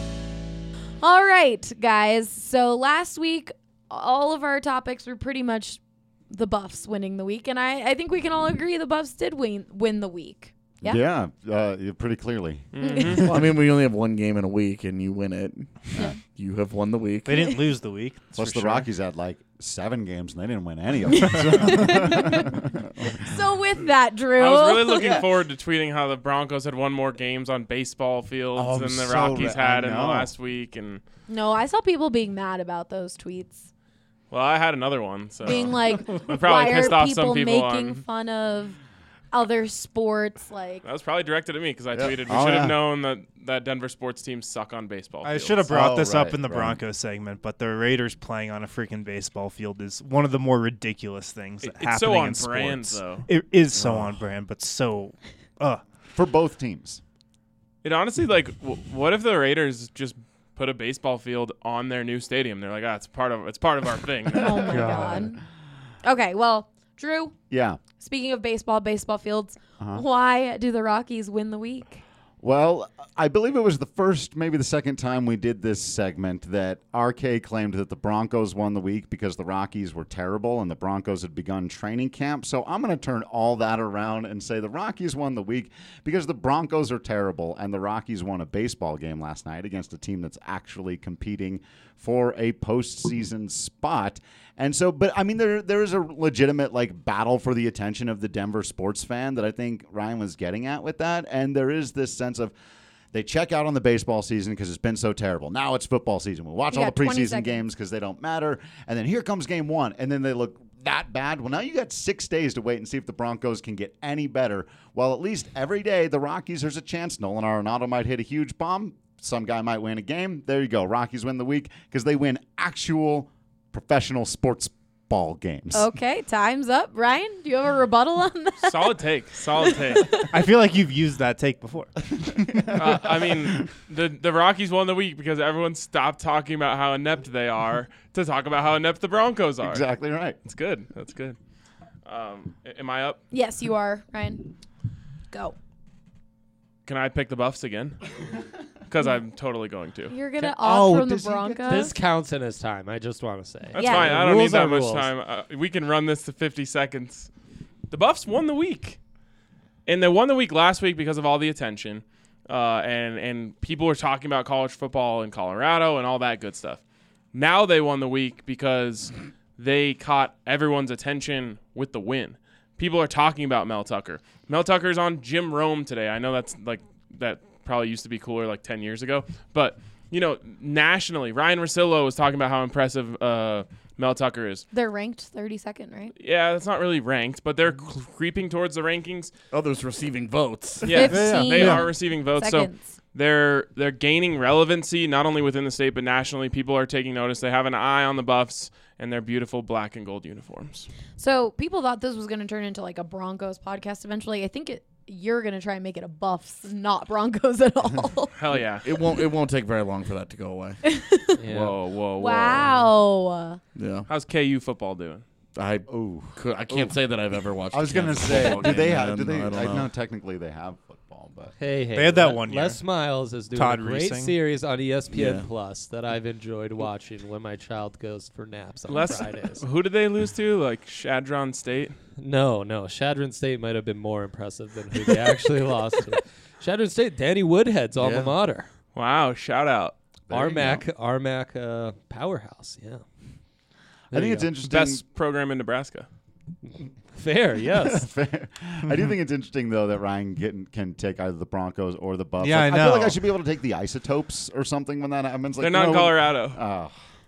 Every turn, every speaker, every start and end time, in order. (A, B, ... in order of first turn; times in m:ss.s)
0:01.0-0:11.0 A
0:10.8-0:13.3 B
0:12.7-0:13.3 C
0:12.8-0:13.2 A
0:13.2-0:17.6 D
0:17.2-0:18.9 E
0:18.3-0:23.3 B
0:21.1-0:22.6 A
0:23.2-0:25.2 A
0:24.4-0:31.0 C
0:25.0-0:25.3 B
0:28.5-0:30.3 B
0:31.3-0:33.7 A
0:34.3-0:38.0 C
0:35.4-0:38.8 A
0:39.3-0:40.8 A
0:40.8-0:45.6 C
0:41.9-0:42.8 B
0:45.2-0:55.8 E
0:45.7-0:46.8 B
0:51.6-0:53.3 C
0:53.8-0:54.1 B
0:56.1-0:57.0 B
0:57.8-1:04.7 C
1:04.3-1:05.4 A
1:04.7-1:05.2 E
1:04.8-1:05.2 B
1:06.0-1:07.3 A
1:07.5-1:07.8 B
1:08.0-1:12.0 A
1:12.4-1:42.5 B
1:43.1-2:05.9 B
1:46.7-1:47.6 A
2:05.7-2:08.9 A
2:08.6-2:10.1 C
2:09.7-2:10.2 A
2:10.2-2:11.9 E
2:12.2-2:13.5 B
2:12.7-2:19.9 C
2:19.6-2:20.4 B
2:20.4-2:21.4 C
2:22.0-2:23.2 C
2:23.3-2:24.5 A
2:25.3-2:25.6 A
2:26.8-2:28.1 C
2:28.9-2:30.1 C
2:30.1-2:31.9 A
2:30.6-2:31.9 B
2:31.6-2:35.1 F
2:33.7-2:37.3 C
2:33.8-2:34.2 A
2:37.9-2:39.0 C
2:39.8-2:46.8 C
2:47.3-3:04.7 C
3:04.7-3:06.1 A
3:06.2-3:09.3 C
3:09.5-3:11.0 D
3:10.8-3:20.9 C
3:10.9-3:12.9 A
3:11.1-3:11.9 E
3:21.2-3:28.3 A
3:28.3-3:28.9 C
3:28.8-3:30.8 D
3:30.8-3:31.4 A
3:31.4-3:31.8 F
3:31.5-3:32.7 C
3:32.2-3:33.6 A
3:32.6-3:32.9 F
3:33.8-3:34.1 D
3:34.1-3:35.2 C
3:35.6-3:39.9 D
3:35.9-3:37.0 B
3:37.7-3:41.5 B
3:41.6-3:49.6 F
3:41.9-3:44.3 E
3:45.1-3:45.5 D
3:48.9-3:52.0 C
3:52.2-3:58.7 F
3:58.0-3:58.3 D
3:58.9-4:00.0 C
4:00.3-4:00.8 B
4:00.3-4:03.0 F
4:04.1-4:04.5 F
4:04.1-4:05.0 B
4:04.6-4:06.1 C
4:07.2-4:08.1 F
4:07.7-4:16.9 B
4:12.4-4:13.2 E
4:15.6-4:16.6 C